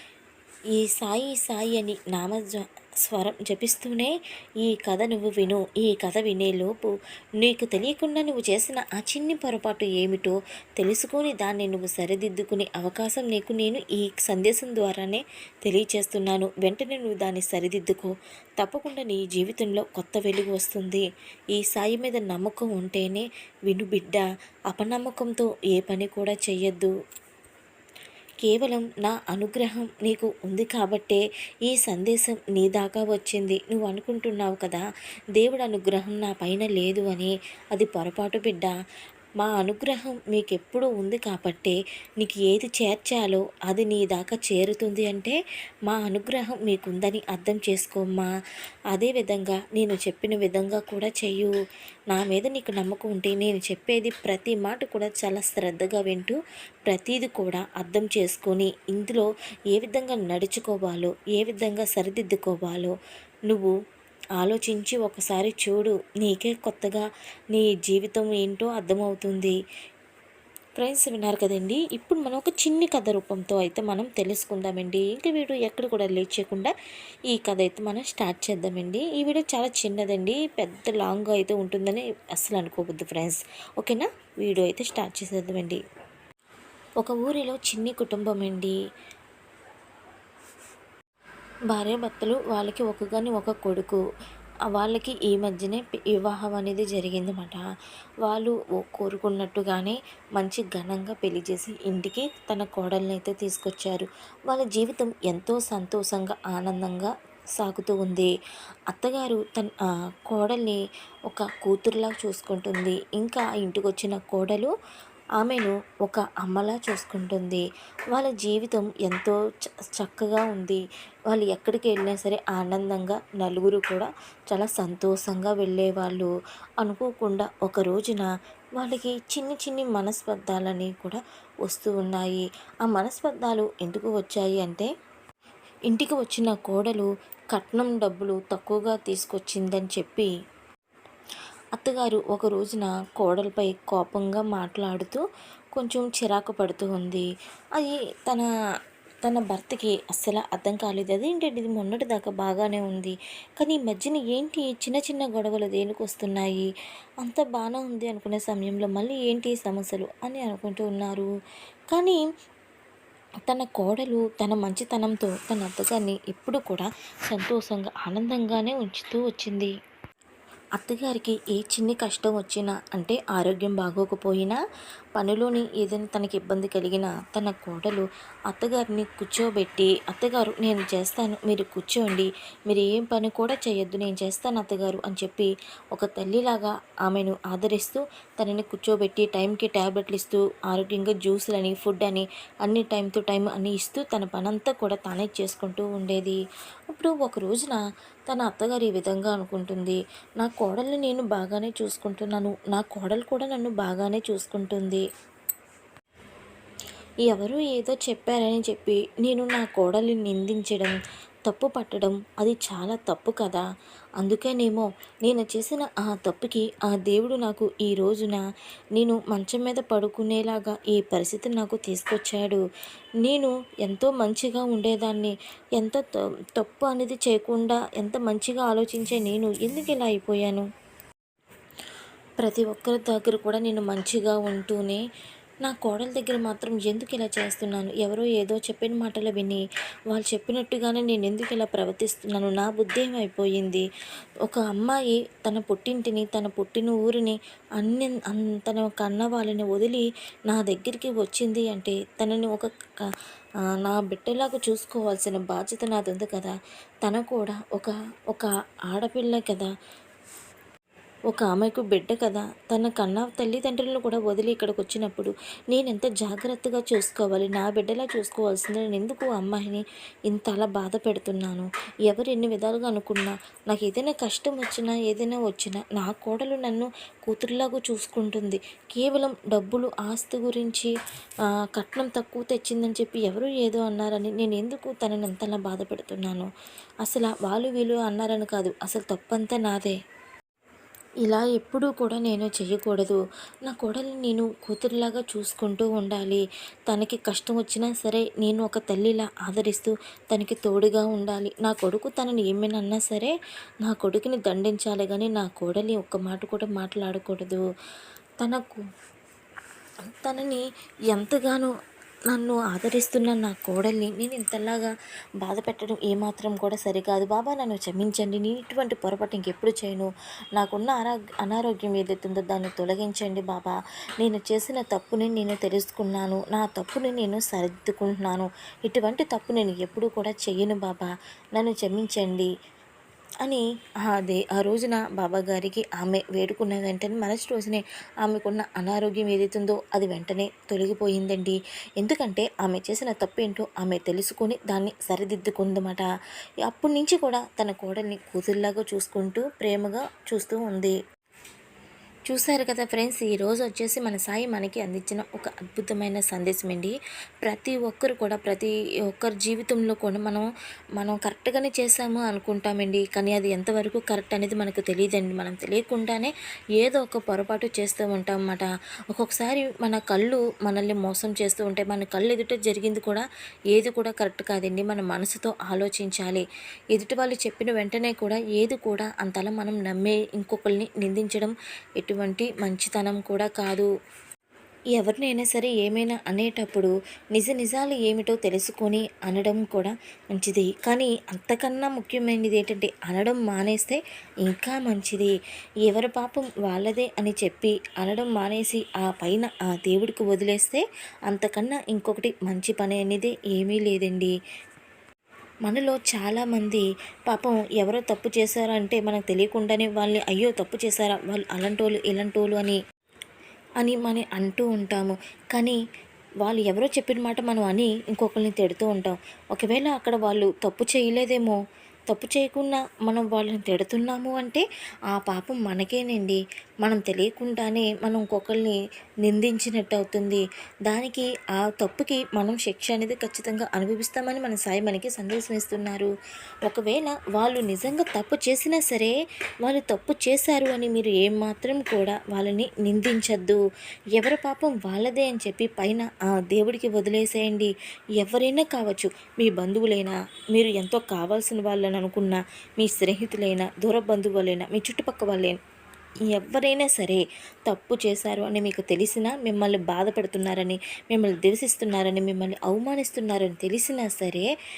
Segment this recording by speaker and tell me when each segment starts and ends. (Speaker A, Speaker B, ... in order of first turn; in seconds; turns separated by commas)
Speaker A: 0.7-26.9, Speaker A: 28.4-34.8, Speaker A: 35.4-38.7, Speaker A: 39.4-45.4, Speaker A: 45.9-48.3, Speaker A: 48.9-51.5, Speaker A: 52.1-62.9, Speaker A: 64.4-69.5, Speaker A: 70.8-76.7, Speaker A: 77.3-85.8, Speaker A: 87.0-88.7, Speaker A: 91.7-94.0, Speaker A: 94.7-97.6, Speaker A: 98.2-108.3, Speaker A: 108.9-109.7, Speaker A: 110.3-110.8, Speaker A: 111.3-114.7, Speaker A: 115.4-119.3, Speaker A: 120.0-128.2, Speaker A: 128.8-134.9, Speaker A: 135.9-140.3, Speaker A: 141.8-145.2, Speaker A: 145.8-148.4, Speaker A: 149.2-156.7, Speaker A: 157.2-161.3, Speaker A: 161.9-162.2, Speaker A: 163.5-169.7, Speaker A: 170.8-174.6, Speaker A: 175.2-196.4, Speaker A: 196.9-205.0, Speaker A: 207.3-213.6, Speaker A: 214.2-218.4, Speaker A: 218.9-222.6, Speaker A: 223.2-226.0, Speaker A: 226.6-230.6, Speaker A: 232.4-235.0, Speaker A: 235.6-243.8, Speaker A: 244.4-252.7, Speaker A: 253.8-259.7, Speaker A: 261.3-280.9, Speaker A: 281.7-286.5, Speaker A: 287.0-290.0, Speaker A: 291.2-303.3, Speaker A: 303.8-307.6, Speaker A: 308.4-308.8, Speaker A: 310.2-311.7, Speaker A: 312.3-314.9, Speaker A: 315.4-332.5, Speaker A: 333.4-346.0, Speaker A: 346.6-350.9, Speaker A: 352.3-360.4, Speaker A: 361.0-376.4, Speaker A: 376.9-383.9, Speaker A: 384.9-395.3, Speaker A: 395.9-404.3, Speaker A: 405.6-412.8, Speaker A: 413.8-415.8, Speaker A: 416.4-436.1, Speaker A: 436.7-439.1, Speaker A: 439.6-443.6, Speaker A: 444.1-455.6, Speaker A: 456.3-464.5